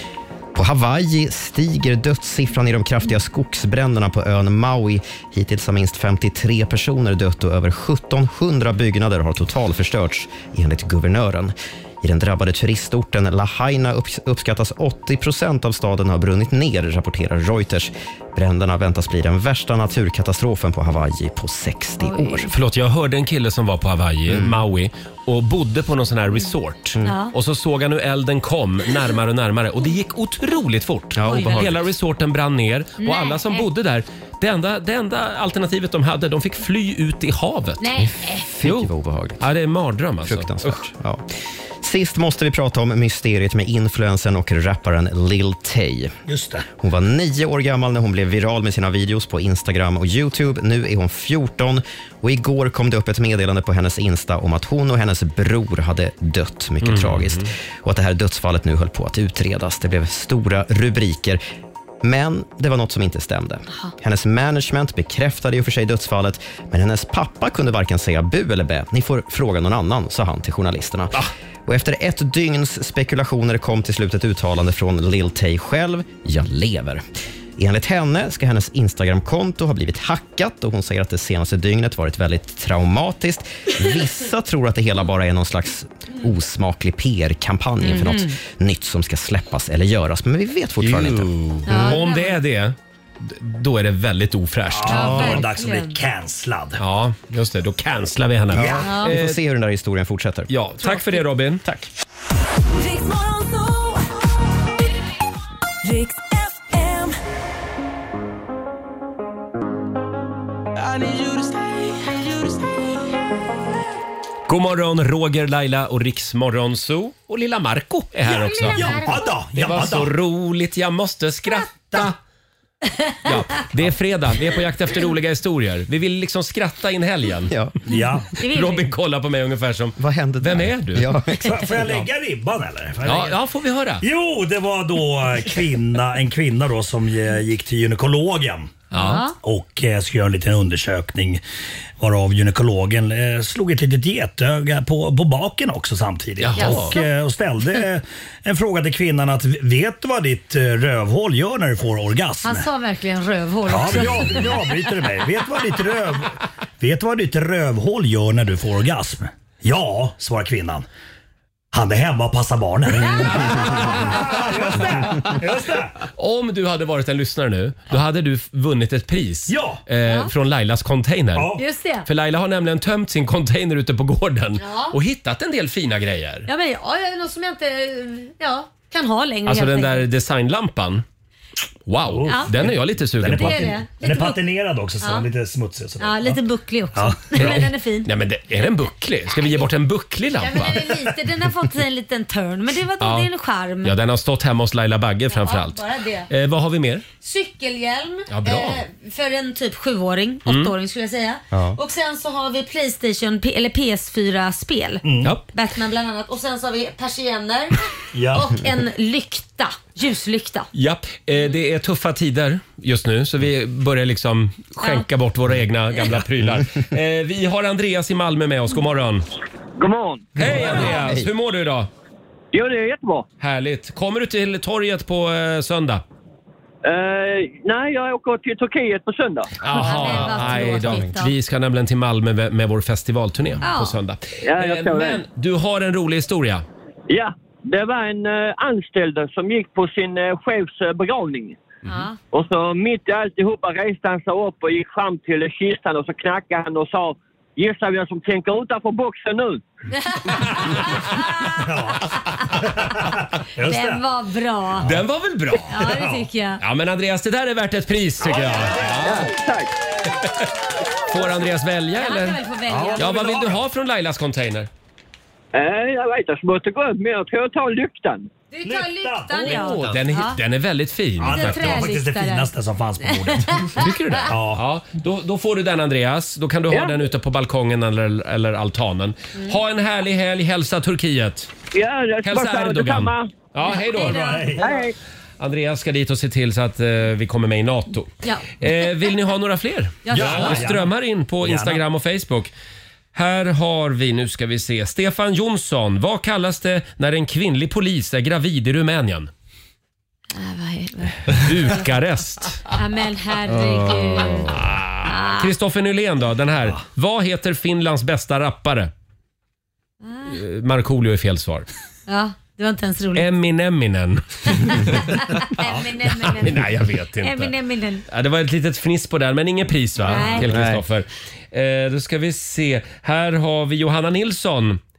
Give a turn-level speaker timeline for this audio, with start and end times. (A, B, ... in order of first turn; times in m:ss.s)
0:00.5-0:22.5 A
0:22.0-0:22.5 B
0:22.5-0:38.1 C
0:24.3-0:24.6 A
0:27.0-0:27.3 B
0:31.1-0:31.8 A
0:31.3-0:31.7 B
0:33.0-0:33.6 B
0:37.8-0:38.4 B
0:38.4-0:39.4 A
0:38.6-0:40.8 C
0:40.2-0:41.2 A
0:41.8-0:46.1 A
0:46.3-0:46.6 D
0:46.8-1:01.4 A
0:56.8-0:57.5 C
1:02.0-1:17.0 A
1:17.6-1:32.0 A
1:27.8-1:28.4 B
1:30.8-1:35.4 C
1:31.7-1:32.4 B
1:34.7-1:36.8 D
1:34.9-1:36.0 B
1:36.8-1:39.4 C
1:38.5-1:40.5 A
1:38.5-1:38.9 D
1:38.8-1:39.1 B
1:40.5-1:41.7 C
1:42.7-1:44.2 E
1:45.8-1:47.2 E
1:50.8-1:53.1 E
1:54.5-1:59.0 C
1:58.3-2:00.1 D
1:58.7-1:59.1 B
1:59.5-2:02.2 C
2:03.0-2:03.2 B
2:03.2-2:07.5 C
2:07.5-2:07.7 A
2:07.9-2:08.3 D
2:08.4-2:08.9 B
2:08.4-2:11.1 C
2:10.0-2:12.0 A
2:11.4-2:13.4 D
2:13.0-2:14.0 C
2:14.0-2:18.8 D
2:18.9-2:19.2 C
2:18.9-2:19.3 B
2:19.4-2:21.4 D
2:22.0-2:32.6 D
2:26.4-2:26.9 C
2:26.6-2:27.1 B
2:32.4-2:34.8 B
2:33.7-2:40.8 D
2:41.7-2:45.9 D
2:46.2-2:56.5 C
2:49.5-2:49.8 D
2:50.0-2:50.3 B
2:51.3-2:51.6 D
2:51.6-2:52.1 B
2:54.6-2:55.0 B
2:56.5-3:00.1 B
2:59.5-3:01.0 C
3:01.9-3:03.7 C
3:02.0-3:06.4 D
3:02.3-3:02.5 B
3:03.2-3:04.4 B
3:05.0-3:05.2 B
3:06.0-3:08.1 B
3:06.9-3:07.7 D
3:07.4-3:10.9 C
3:10.4-3:13.9 B
3:13.0-3:13.3 C
3:13.8-3:17.0 C
3:15.3-3:16.3 B
3:17.2-3:27.8 B
3:18.3-3:18.8 C
3:20.5-3:20.7 C
3:21.5-3:21.8 A
3:25.0-3:25.3 D
3:28.1-3:28.6 D
3:28.3-3:30.7 B
3:30.7-3:39.2 C
3:34.8-3:35.1 B
3:39.8-3:40.3 F
3:40.4-3:41.9 C
3:40.4-3:41.3 A
3:42.5-3:43.3 F
3:43.4-3:46.0 C
3:46.8-3:49.5 F
3:49.6-3:56.6 C
3:49.7-3:51.3 B
3:49.8-3:51.1 A
3:53.6-3:54.0 B
3:54.4-3:55.2 F
3:57.1-4:01.6 F
4:01.8-4:02.2 B
4:02.3-4:09.6 F
4:10.1-4:11.2 B
4:11.5-4:14.0 D
4:13.6-4:14.9 B
4:14.8-4:15.7 C
4:15.6-4:16.2 D
4:15.7-4:16.6 B
4:16.6-4:19.3 C
4:18.2-4:19.3 D
4:19.0-4:19.7 F
4:20.2-4:20.5 C
4:21.1-4:22.4 C
4:22.0-4:23.2 B
4:22.7-4:23.6 D
4:23.0-4:24.7 C
4:25.5-4:28.3 F
4:28.5-4:30.4 B
4:28.6-4:30.0 D
4:29.4-4:31.9 C
4:31.2-4:34.6 D
4:31.2-4:32.5 B
4:33.0-4:33.8 B
4:33.8-4:41.5 C
4:41.7-4:43.3 F
4:42.2-4:44.4 C
4:43.6-4:44.5 B
4:44.0-4:44.7 D
4:44.6-4:44.9 F
4:45.4-4:52.5 C
4:48.2-4:48.6 B
4:50.0-4:50.6 B
4:50.1-4:51.8 D
4:53.1-4:59.3 C
5:00.3-5:01.8 B
5:01.3-5:02.6 C
5:02.7-5:05.5 B
5:04.2-5:08.9 C
5:10.0-5:10.4 B
5:10.3-5:11.7 C
5:12.1-5:13.3 B
5:13.1-5:15.0 C
5:14.6-5:16.7 B
5:16.0-5:17.5 C
5:17.2-5:18.0 B
5:18.1-5:24.8 C
5:20.0-5:20.5 B
5:20.4-5:20.8 A